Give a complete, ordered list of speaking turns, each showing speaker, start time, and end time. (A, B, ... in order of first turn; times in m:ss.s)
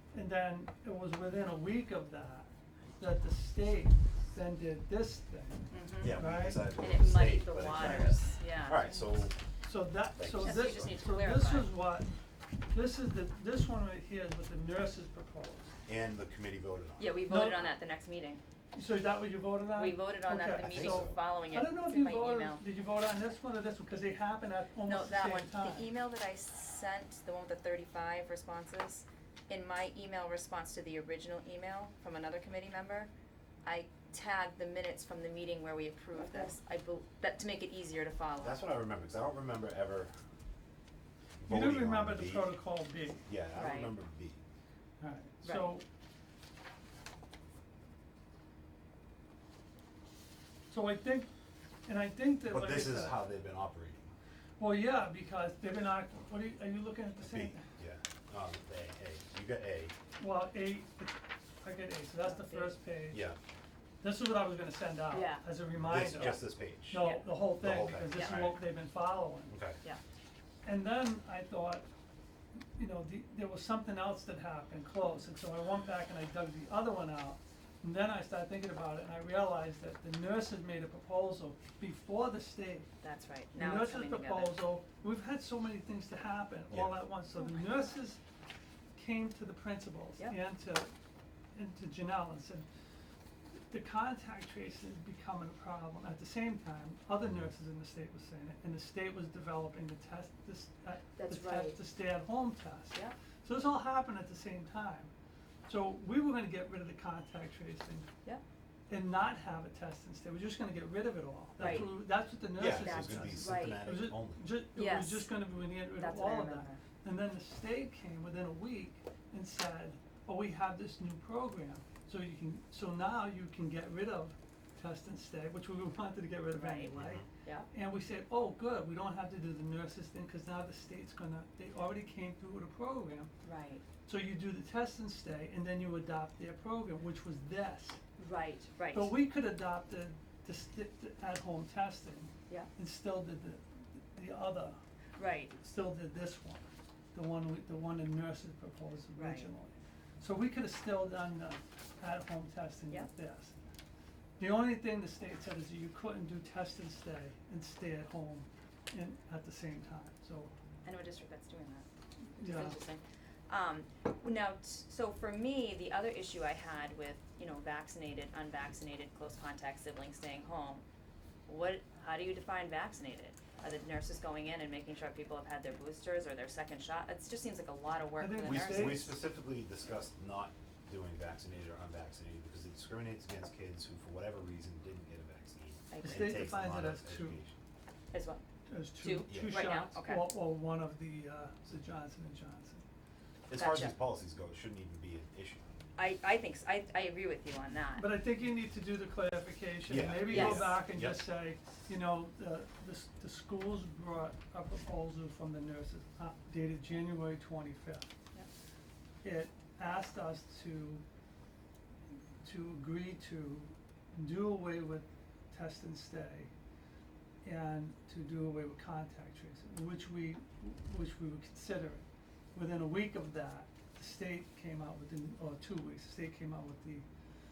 0:00.1-0:06.6 A
0:05.7-0:09.2 B
0:06.0-0:09.4 C
0:07.8-0:08.1 A
0:09.6-0:12.1 A
0:10.2-0:10.9 C
0:10.4-0:11.7 B
0:12.7-0:15.7 A
0:15.9-0:17.1 C
0:17.0-0:18.4 B
0:17.2-0:17.7 A
0:18.7-0:25.9 A
0:19.8-0:22.6 B
0:20.6-0:21.2 C
0:24.8-0:33.1 B
0:33.6-0:38.6 B
0:36.2-0:36.5 A
0:38.4-0:40.1 C
0:41.4-0:42.5 C
0:41.5-0:43.3 A
0:43.3-0:44.4 C
0:43.5-0:44.0 B
0:45.0-0:45.8 A
0:45.4-0:45.8 B
0:50.7-0:51.3 A
0:51.9-0:53.3 A
0:52.4-0:54.1 C
0:54.6-0:57.7 A
0:57.2-1:00.0 C
1:00.2-1:03.3 A
1:02.2-1:02.8 B
1:03.1-1:03.4 C
1:04.0-1:09.6 A
1:05.1-1:05.5 B
1:05.8-1:08.7 C
1:07.0-1:07.4 B
1:08.1-1:08.6 B
1:09.5-1:09.8 C
1:10.6-1:11.9 A
1:12.8-1:22.9 A
1:23.0-1:24.6 B
1:23.5-1:28.2 A
1:26.7-1:27.0 C
1:29.0-1:30.9 A
1:31.5-1:32.7 A
1:33.7-1:45.1 A
1:37.2-1:37.5 C
1:41.2-1:41.8 B
1:45.7-1:48.1 A
1:48.9-2:13.3 A
1:51.6-1:51.9 B
1:51.6-1:52.0 C
1:52.6-1:54.5 C
1:52.6-1:53.9 B
1:54.8-1:55.3 B
1:56.0-1:56.8 B
2:06.5-2:07.7 B
2:07.0-2:07.2 C
2:13.4-2:13.8 B
2:14.0-2:18.0 A
2:18.2-2:19.1 B
2:18.9-2:24.8 A
2:25.2-2:25.6 B
2:25.5-2:33.6 A
2:29.1-2:29.5 B
2:34.4-2:40.5 A
2:40.8-2:41.8 B
2:42.4-2:42.8 A
2:42.4-2:50.8 B
2:51.5-2:59.1 B
2:58.2-2:59.1 A
2:58.4-3:07.6 C
3:05.9-3:06.4 B
3:06.0-3:07.4 A
3:08.1-3:08.4 B
3:08.7-3:12.8 A
3:09.0-3:10.3 B
3:09.3-3:09.6 C
3:13.5-3:15.6 C
3:13.5-3:14.0 B
3:16.0-3:18.1 B
3:18.0-3:28.1 A
3:19.9-3:21.2 C
3:20.3-3:20.8 B
3:29.2-3:31.0 A
3:32.4-3:36.5 A
3:37.4-3:47.1 A